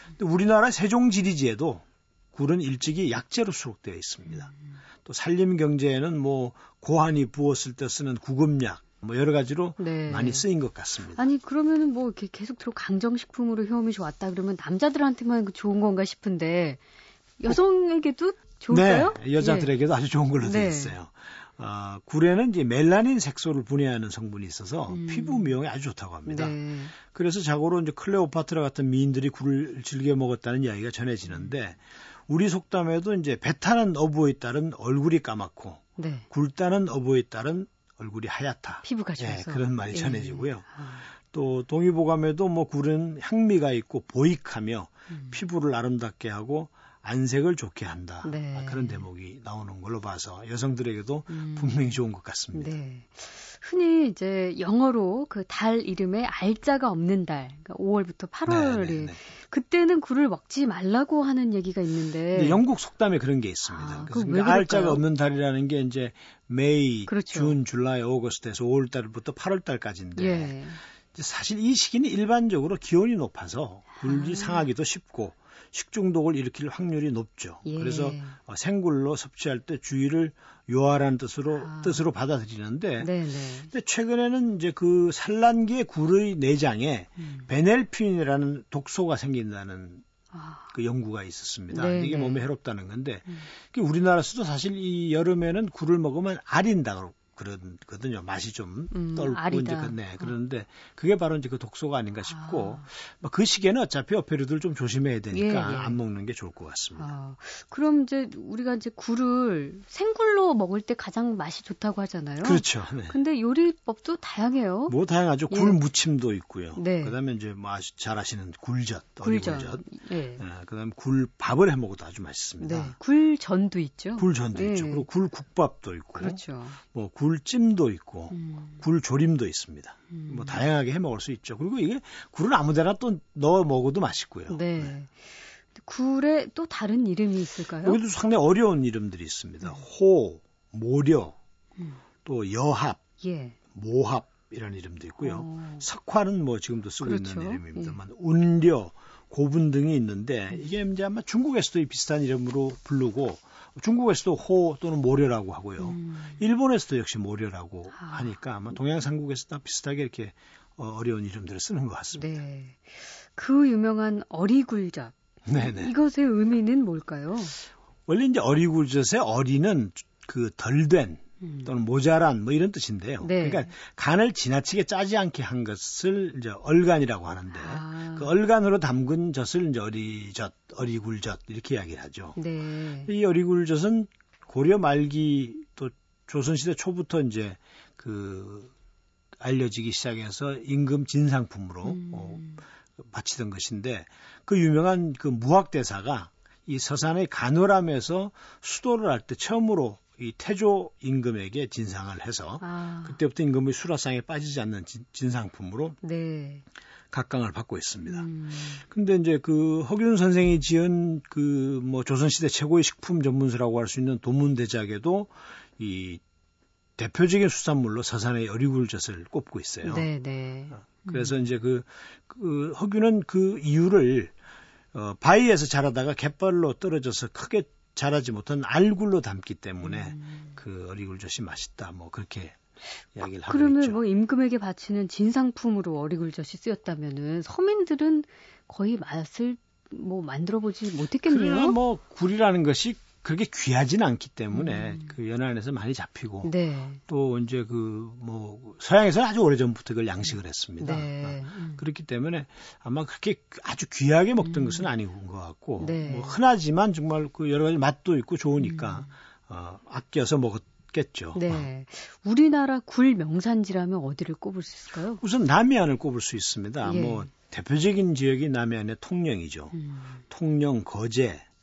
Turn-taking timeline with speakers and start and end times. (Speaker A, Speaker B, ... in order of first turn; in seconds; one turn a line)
Speaker A: 0.1-4.5
Speaker A: 5.0-11.2
Speaker B: 9.8-10.4
Speaker B: 11.2-16.8
Speaker B: 17.4-19.7
Speaker A: 18.7-40.7
Speaker B: 20.4-20.9
Speaker B: 24.9-25.5
Speaker B: 26.2-26.9
Speaker B: 36.0-36.2
Speaker B: 38.8-41.0
Speaker A: 41.3-52.7
Speaker B: 48.2-49.0
Speaker B: 51.3-51.7
Speaker B: 52.5-62.6
Speaker A: 58.5-59.2
Speaker A: 62.3-70.5
Speaker B: 63.6-65.0
Speaker B: 67.1-67.5
Speaker B: 70.2-70.8
Speaker A: 71.1-83.1
Speaker B: 74.0-74.7
Speaker B: 77.7-78.3
Speaker B: 81.6-82.0
Speaker B: 83.0-83.7
Speaker A: 83.7-90.0
Speaker B: 87.2-87.5
Speaker B: 90.3-90.7
Speaker A: 90.7-107.1
Speaker B: 91.7-92.4
Speaker B: 98.9-100.3
Speaker B: 102.3-102.8
Speaker B: 105.3-106.0
Speaker B: 107.0-114.9
Speaker A: 112.4-113.2
Speaker A: 114.9-119.8
Speaker B: 115.5-115.8
Speaker B: 116.8-117.2
Speaker B: 119.2-120.4
Speaker A: 120.4-122.9
Speaker B: 122.6-125.0
Speaker A: 124.2-134.9
Speaker B: 126.2-126.8
Speaker B: 128.3-128.8
Speaker B: 130.1-130.6
Speaker B: 134.5-138.0
Speaker A: 137.8-141.3
Speaker A: 142.2-143.0
Speaker B: 143.2-143.6
Speaker A: 143.7-162.3
Speaker B: 145.2-145.8
Speaker B: 147.0-148.0
Speaker B: 155.8-156.4
Speaker B: 157.9-158.3
Speaker B: 162.1-167.6
Speaker A: 165.4-165.9
Speaker A: 168.1-182.4
Speaker B: 171.4-171.7
Speaker B: 173.2-173.7
Speaker B: 177.5-178.3
Speaker B: 182.3-183.1
Speaker A: 183.1-188.7
Speaker A: 189.4-206.0
Speaker B: 191.8-192.6
Speaker B: 202.6-203.2
Speaker B: 206.0-206.6
Speaker A: 207.1-208.3
Speaker B: 208.1-208.8
Speaker A: 208.8-216.2
Speaker A: 217.0-220.1
Speaker B: 219.8-221.4
Speaker A: 220.8-224.3
Speaker A: 224.9-232.6
Speaker B: 229.8-230.5
Speaker A: 233.1-234.0
Speaker B: 233.5-241.8
Speaker A: 241.3-246.5
Speaker B: 244.5-245.1
Speaker B: 246.4-247.0
Speaker A: 247.1-261.6
Speaker B: 250.8-251.8
Speaker B: 254.4-254.8
Speaker B: 255.8-256.4
Speaker B: 258.6-259.1
Speaker B: 261.3-265.2
Speaker A: 265.2-269.8
Speaker B: 266.8-267.3
Speaker B: 269.8-270.1
Speaker A: 270.3-271.4